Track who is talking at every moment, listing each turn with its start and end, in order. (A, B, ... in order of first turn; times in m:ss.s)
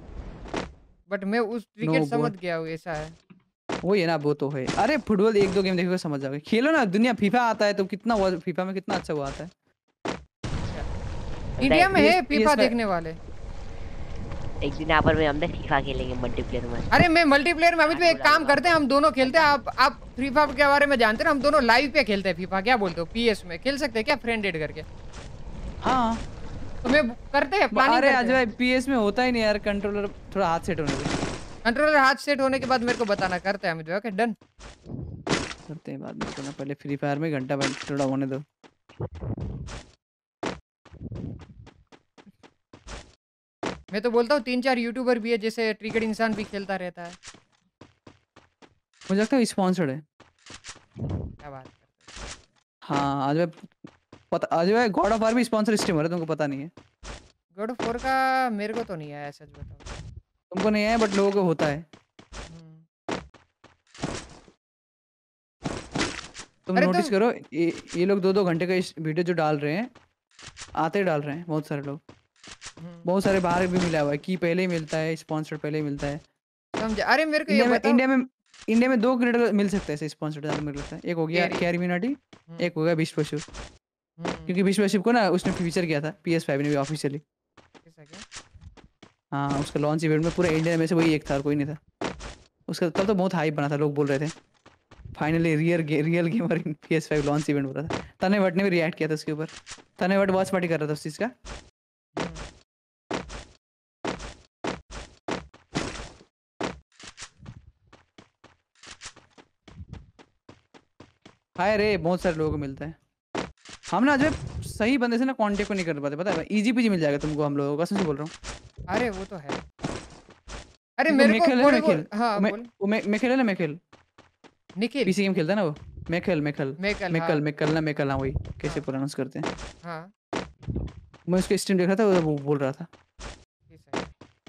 0:01.1-0:03.1 A
0:01.8-0:02.3 B
0:03.8-0:09.5 B
0:11.6-0:11.9 C
0:11.6-0:13.2 A
0:11.9-0:12.7 B
0:14.6-0:16.9 C
0:16.9-0:24.8 A
0:17.9-0:19.5 C
0:25.8-0:26.2 B
0:26.8-0:28.4 A
0:27.7-0:31.1 B
0:31.6-0:34.3 A
0:35.7-0:38.4 B
0:43.9-0:47.2 A
0:49.1-0:50.0 B
0:51.4-0:51.9 A
0:52.9-0:53.7 B
0:54.3-0:56.7 B
0:57.5-0:59.9 A
1:00.5-1:01.8 B
1:02.5-1:02.8 A
1:06.7-1:09.9 B
1:06.8-1:07.1 A
1:10.8-1:12.0 B
1:12.8-1:13.1 A
1:13.0-1:16.2 B
1:16.8-1:18.0 A
1:17.5-1:23.4 B
1:21.3-1:21.7 A
1:22.5-1:22.7 A
1:24.2-1:24.5 A
1:24.5-1:27.2 B
1:27.8-1:28.2 A
1:29.3-1:31.8 B
1:32.7-1:34.3 B
1:35.1-1:41.3 B
1:42.2-1:42.5 A
1:51.6-1:53.0 B
1:53.9-1:58.3 B
1:58.9-1:59.6 A
2:01.0-2:02.7 A
2:01.1-2:03.8 B
2:04.8-2:05.1 A
2:05.0-2:09.4 B
2:06.8-2:07.4 A
2:09.8-2:10.1 A
2:11.3-2:12.9 B
2:13.7-2:14.1 A